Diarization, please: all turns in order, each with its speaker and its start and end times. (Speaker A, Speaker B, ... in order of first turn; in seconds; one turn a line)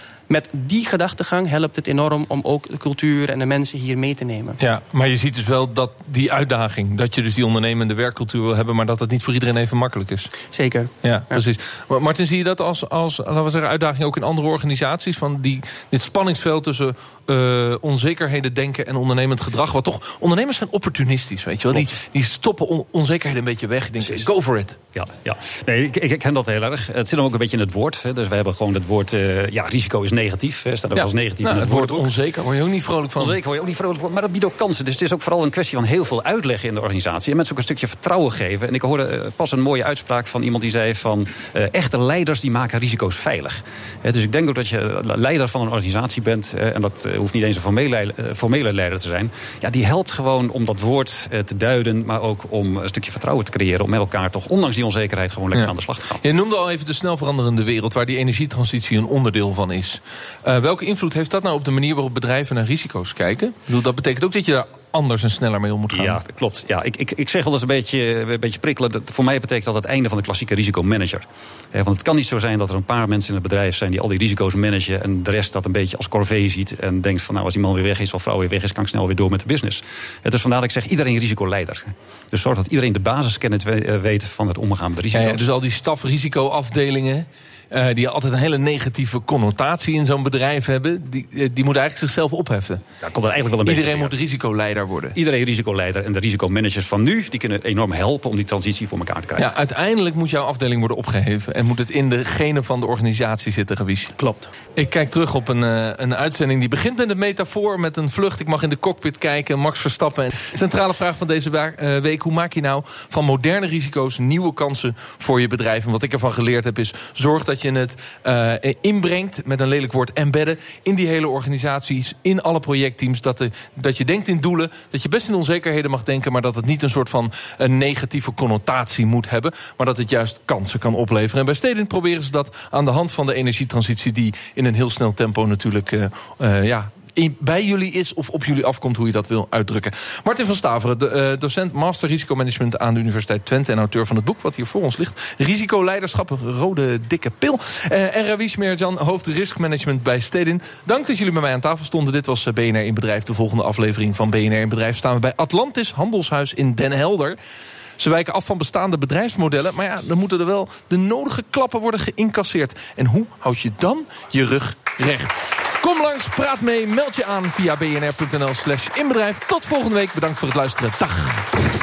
Speaker A: 0.3-4.6
Speaker B: 4.6-10.3
Speaker A: 10.5-11.3
Speaker B: 11.0-24.8
Speaker C: 24.9-32.1
Speaker B: 30.9-33.4
Speaker C: 33.2-56.2
Speaker B: 55.5-66.2
Speaker C: 65.9-85.4
Speaker B: 85.1-92.8
Speaker C: 93.0-94.2
Speaker B: 93.6-95.2
Speaker C: 95.1-99.5
Speaker B: 99.4-104.1
Speaker A: 104.2-104.5
Speaker B: 104.7-157.3
Speaker B: 158.0-171.5